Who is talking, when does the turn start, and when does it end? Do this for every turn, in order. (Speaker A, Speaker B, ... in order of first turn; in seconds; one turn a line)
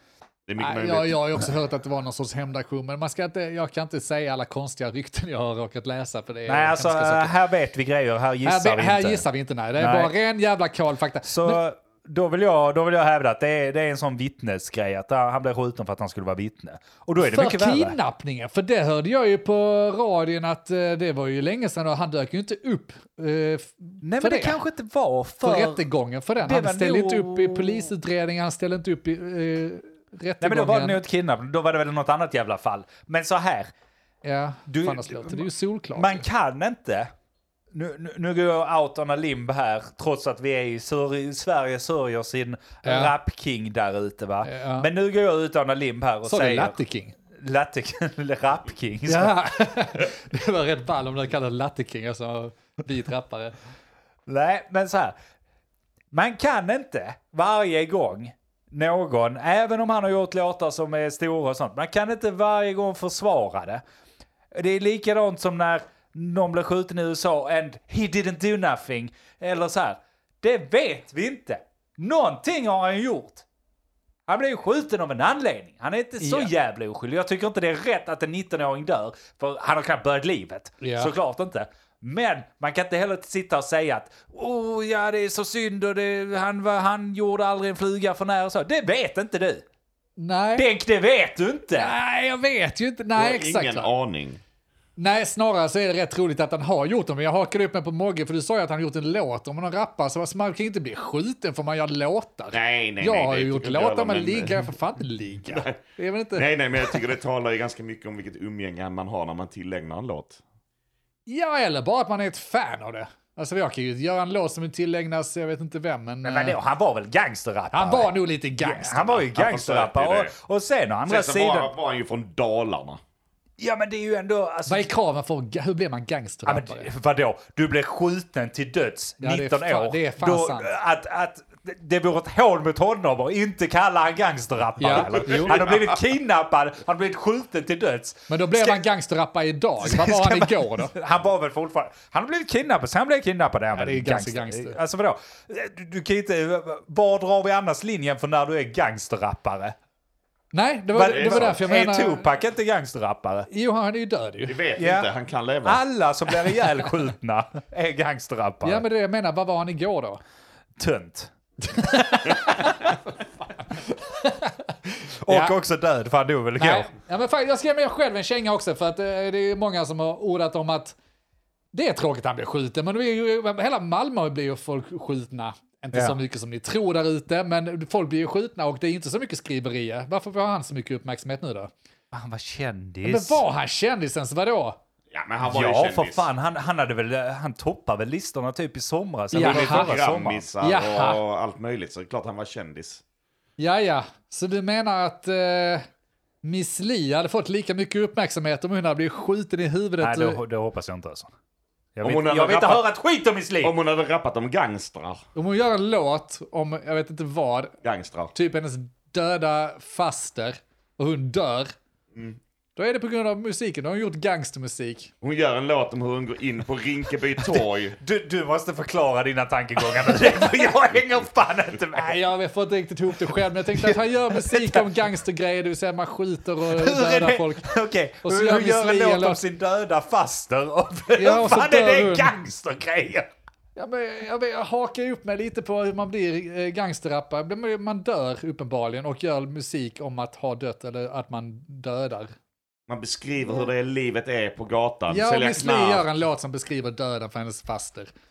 Speaker A: 0.5-1.3
Speaker B: 0.6-7.3
Speaker C: 6.5-9.2
Speaker B: 8.4-11.6
Speaker C: 9.8-10.1
Speaker C: 11.2-18.0
Speaker B: 17.2-24.6
Speaker C: 24.0-25.8
Speaker B: 25.4-31.0
Speaker C: 26.4-27.9
Speaker C: 30.4-33.7
Speaker B: 34.2-36.2
Speaker C: 34.7-37.1
Speaker C: 37.7-46.8
Speaker B: 42.8-43.1
Speaker B: 44.4-44.9
Speaker B: 46.2-47.1
Speaker C: 47.3-49.4
Speaker B: 49.1-53.5
Speaker C: 54.3-55.1
Speaker C: 56.1-63.8
Speaker C: 64.5-73.4
Speaker C: 74.3-89.6
Speaker B: 76.2-76.5
Speaker B: 80.8-81.1
Speaker B: 90.2-90.7
Speaker C: 90.5-91.9
Speaker B: 91.7-93.9
Speaker A: 93.2-94.4
Speaker B: 95.0-107.0
Speaker A: 102.5-104.5
Speaker A: 105.5-105.8
Speaker A: 106.3-110.4
Speaker B: 111.3-116.6
Speaker C: 116.2-121.7
Speaker B: 117.7-119.2
Speaker A: 119.3-120.3
Speaker A: 121.1-123.0
Speaker C: 123.6-124.9
Speaker B: 124.7-126.9
Speaker C: 126.5-138.8
Speaker B: 129.2-130.7
Speaker B: 134.8-135.6
Speaker A: 135.0-136.0
Speaker B: 138.3-140.9
Speaker C: 139.8-149.8
Speaker B: 143.7-144.8
Speaker B: 150.5-152.2
Speaker C: 150.9-153.5
Speaker A: 151.1-151.6
Speaker B: 153.5-154.6
Speaker A: 154.4-155.8
Speaker C: 154.8-155.1
Speaker C: 155.6-158.8
Speaker B: 158.6-160.2
Speaker C: 160.8-162.9
Speaker B: 161.7-164.7
Speaker C: 165.2-166.9
Speaker B: 165.3-165.5
Speaker B: 166.6-170.9
Speaker B: 171.7-181.7
Speaker C: 182.1-183.4
Speaker B: 183.0-184.8
Speaker A: 185.1-186.3
Speaker C: 185.4-190.4
Speaker B: 189.3-189.9
Speaker A: 189.3-193.0
Speaker B: 190.6-191.2
Speaker B: 193.6-195.8
Speaker B: 196.4-200.4
Speaker C: 200.0-201.3
Speaker C: 201.9-203.8
Speaker A: 202.0-202.9
Speaker A: 203.6-205.2
Speaker B: 205.3-207.7
Speaker A: 207.8-208.3
Speaker B: 208.3-211.7
Speaker A: 212.1-212.4
Speaker B: 212.8-215.1
Speaker A: 215.2-218.0
Speaker C: 218.0-222.2
Speaker B: 221.9-229.4
Speaker C: 223.7-224.9
Speaker C: 226.7-233.3
Speaker B: 231.2-232.3
Speaker B: 233.8-242.3
Speaker A: 242.9-246.1
Speaker B: 245.1-248.1